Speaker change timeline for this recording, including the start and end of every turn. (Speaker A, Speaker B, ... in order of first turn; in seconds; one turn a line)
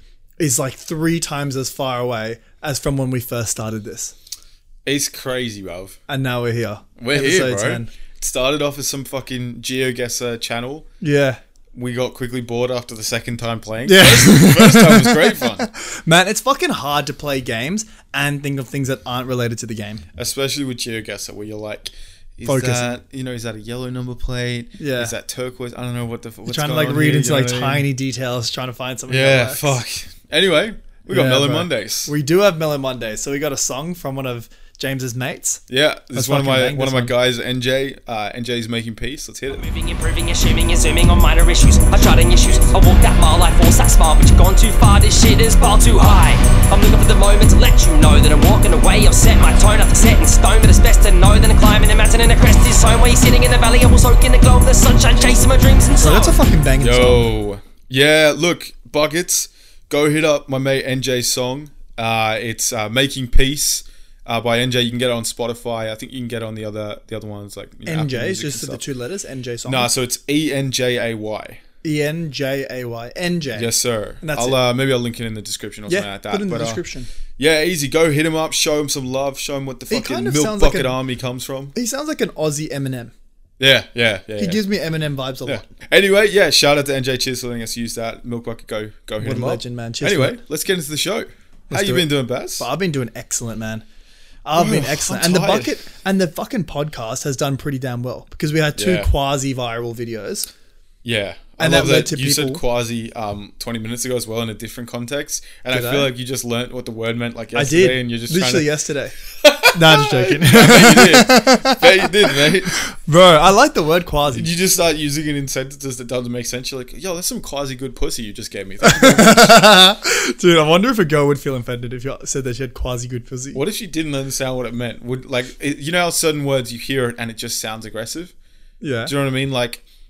Speaker A: 0.4-4.1
Speaker B: 4.8-6.0
Speaker A: 6.1-7.9
Speaker B: 7.0-10.9
Speaker A: 11.0-11.4
Speaker B: 11.7-15.7
Speaker A: 13.8-20.0
Speaker B: 20.1-27.9
Speaker A: 22.4-22.9
Speaker A: 24.8-25.1
Speaker A: 26.5-29.8
Speaker B: 29.1-32.1
Speaker A: 31.1-35.6
Speaker B: 35.7-39.7
Speaker A: 36.1-37.1
Speaker C: 39.5-56.3
Speaker A: 56.0-57.3
Speaker B: 56.8-68.8
Speaker A: 67.8-69.9
Speaker B: 69.6-71.6
Speaker A: 71.8-74.6
Speaker B: 73.5-76.8
Speaker A: 75.9-77.1
Speaker B: 77.4-81.7
Speaker A: 79.9-81.0
Speaker A: 81.7-83.1
Speaker B: 83.6-84.6
Speaker A: 84.4-85.7
Speaker B: 85.4-92.7
Speaker A: 89.2-90.4
Speaker A: 91.7-93.8
Speaker A: 94.4-100.5
Speaker B: 94.5-95.7
Speaker B: 98.8-99.1
Speaker B: 101.0-108.7
Speaker A: 101.6-102.6
Speaker A: 105.7-106.1
Speaker A: 107.5-109.1
Speaker B: 109.4-112.8
Speaker A: 109.7-114.5
Speaker B: 114.3-119.6
Speaker A: 118.8-123.6
Speaker B: 123.5-128.3
Speaker A: 128.8-129.1
Speaker B: 129.1-129.8